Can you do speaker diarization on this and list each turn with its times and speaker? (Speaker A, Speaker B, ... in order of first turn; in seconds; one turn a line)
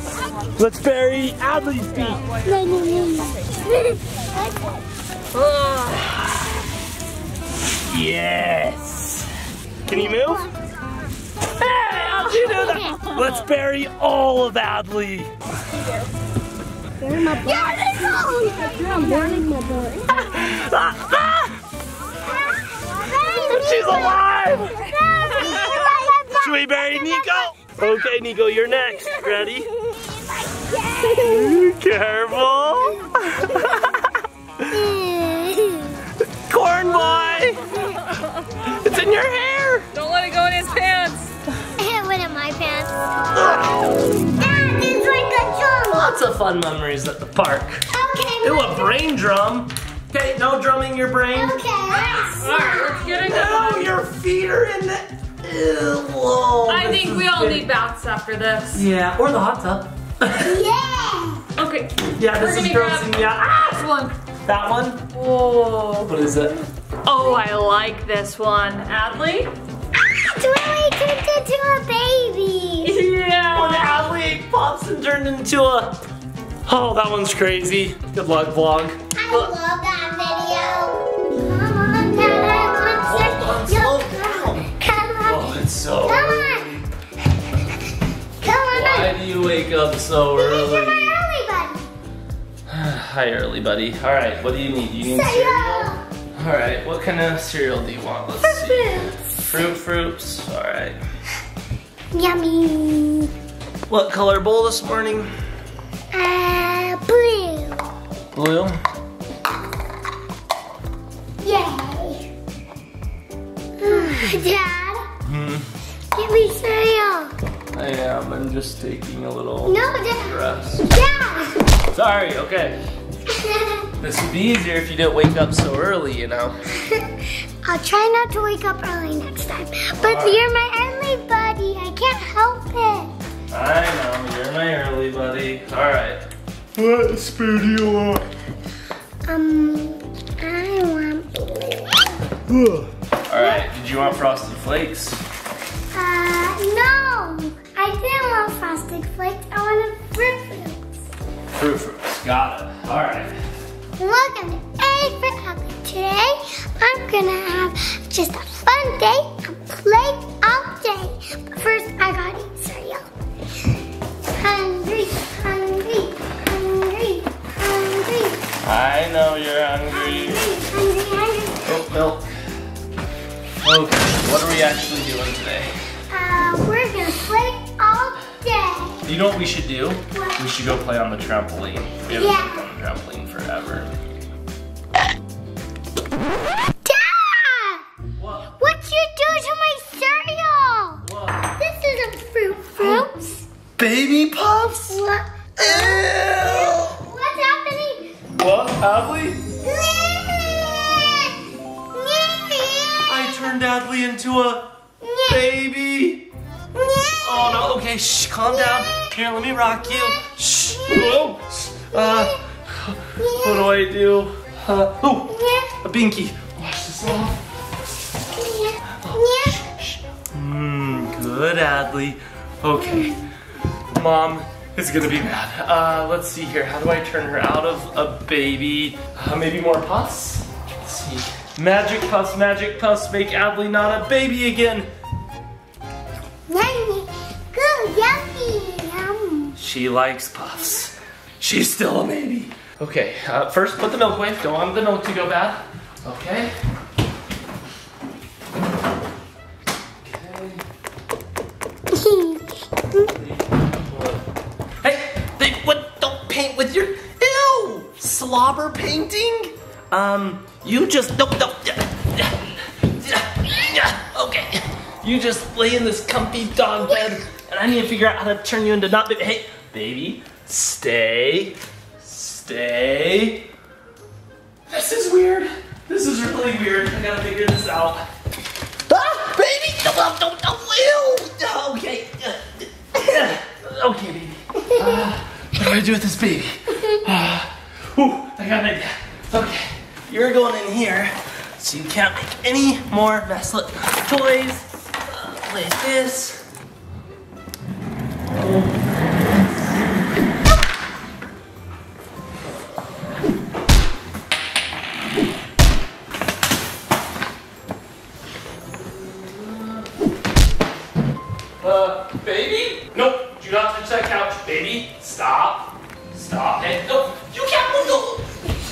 Speaker A: 0.6-2.2
Speaker B: 2.4-4.8
Speaker C: 5.5-5.9
Speaker A: 5.9-6.2
Speaker A: 7.9-9.3
Speaker A: 9.9-10.4
Speaker A: 11.6-15.3
Speaker B: 12.5-12.8
Speaker B: 17.0-19.9
Speaker A: 17.4-18.1
Speaker C: 18.7-19.3
Speaker A: 20.1-21.6
Speaker B: 22.2-27.8
Speaker A: 23.2-24.8
Speaker A: 25.4-29.7
Speaker B: 30.2-31.5
Speaker A: 31.0-34.2
Speaker B: 34.7-36.0
Speaker A: 36.5-37.8
Speaker A: 38.6-39.9
Speaker C: 39.9-41.3
Speaker B: 41.8-43.1
Speaker A: 43.3-43.9
Speaker B: 44.3-46.1
Speaker A: 45.8-47.8
Speaker B: 47.9-49.0
Speaker A: 48.4-51.6
Speaker B: 51.3-53.2
Speaker C: 52.1-53.9
Speaker A: 53.2-57.7
Speaker C: 56.7-58.8
Speaker A: 58.7-60.5
Speaker B: 60.4-61.4
Speaker C: 61.6-64.1
Speaker A: 62.1-63.8
Speaker A: 64.5-65.0
Speaker C: 65.1-66.1
Speaker A: 66.0-66.6
Speaker C: 67.0-69.5
Speaker B: 70.1-72.9
Speaker C: 72.8-74.0
Speaker A: 73.5-76.0
Speaker A: 76.7-79.5
Speaker B: 79.1-86.8
Speaker A: 83.0-84.7
Speaker A: 85.2-86.8
Speaker B: 88.4-89.2
Speaker A: 88.7-91.2
Speaker B: 90.3-91.9
Speaker A: 92.7-101.0
Speaker B: 95.0-96.0
Speaker B: 98.4-99.4
Speaker B: 102.1-103.3
Speaker A: 103.9-105.3
Speaker B: 106.1-107.9
Speaker A: 108.3-108.8
Speaker B: 111.4-112.3
Speaker B: 113.8-115.1
Speaker A: 115.2-115.7
Speaker B: 116.1-117.3
Speaker A: 117.7-120.8
Speaker B: 119.7-120.4
Speaker B: 120.9-121.6
Speaker A: 121.9-122.8
Speaker B: 123.2-123.9
Speaker A: 124.0-126.6
Speaker B: 126.7-133.1
Speaker A: 130.0-130.4
Speaker A: 133.5-136.2
Speaker A: 136.8-138.2
Speaker B: 139.2-142.3
Speaker A: 142.5-145.2
Speaker B: 143.3-143.6
Speaker B: 145.9-151.0
Speaker A: 151.5-153.4
Speaker B: 154.0-163.1
Speaker B: 164.3-168.4
Speaker A: 168.6-170.4
Speaker B: 169.9-171.7
Speaker A: 171.6-172.3
Speaker A: 173.6-175.7
Speaker B: 176.1-179.1
Speaker A: 179.0-183.9
Speaker B: 180.1-180.5
Speaker B: 182.1-182.6
Speaker B: 186.8-187.8
Speaker A: 188.2-188.5
Speaker B: 188.6-191.0
Speaker A: 191.0-191.5
Speaker B: 191.6-193.4
Speaker A: 192.8-193.1
Speaker A: 193.8-195.0
Speaker B: 194.9-198.2
Speaker A: 195.6-196.9
Speaker A: 198.3-199.4
Speaker B: 199.6-203.3
Speaker A: 203.1-204.7
Speaker B: 205.0-205.5
Speaker A: 205.2-206.3
Speaker B: 206.7-207.7
Speaker A: 207.2-217.4
Speaker B: 208.5-209.2
Speaker B: 209.8-211.3
Speaker B: 211.9-212.4
Speaker B: 213.2-213.8
Speaker B: 215.3-215.7
Speaker B: 218.3-219.7
Speaker A: 219.0-223.2
Speaker B: 222.7-223.2
Speaker A: 223.9-234.9
Speaker B: 236.5-239.6
Speaker A: 239.6-246.5
Speaker A: 250.0-250.6
Speaker B: 251.9-253.1
Speaker A: 253.0-254.2
Speaker A: 254.8-273.5
Speaker A: 274.7-278.1
Speaker A: 278.9-296.4
Speaker A: 298.4-298.7
Speaker A: 308.9-309.9
Speaker A: 311.6-318.3